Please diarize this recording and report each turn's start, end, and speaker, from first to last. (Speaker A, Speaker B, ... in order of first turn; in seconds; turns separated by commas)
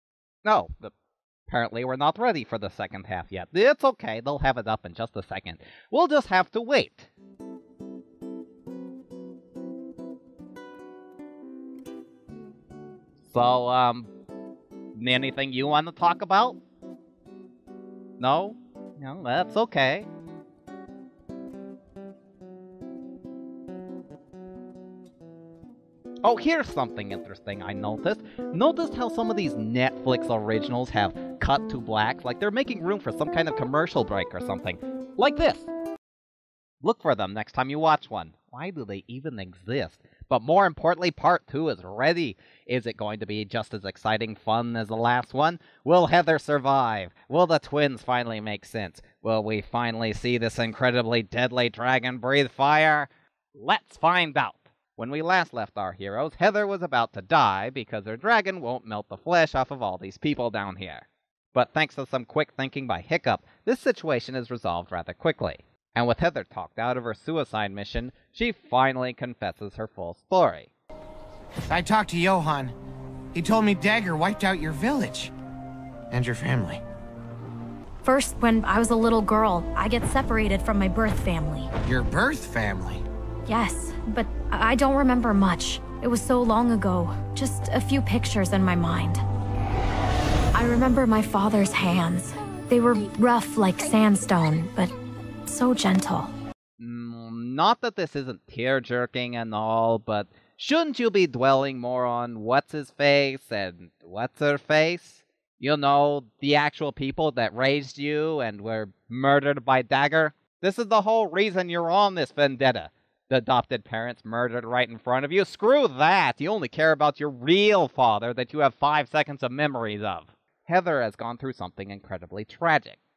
Speaker A: 0.4-0.9, Speaker A: 1.5-7.1, Speaker A: 13.3-14.1, Speaker A: 14.9-16.6, Speaker A: 18.2-20.1, Speaker A: 26.2-35.7, Speaker A: 36.8-70.7, Speaker B: 71.7-72.7, Speaker B: 73.3-75.3, Speaker B: 76.1-76.8, Speaker C: 78.0-81.7, Speaker B: 81.8-83.0, Speaker C: 83.5-89.2, Speaker C: 90.5-94.9, Speaker C: 95.5-96.3, Speaker A: 96.8-123.0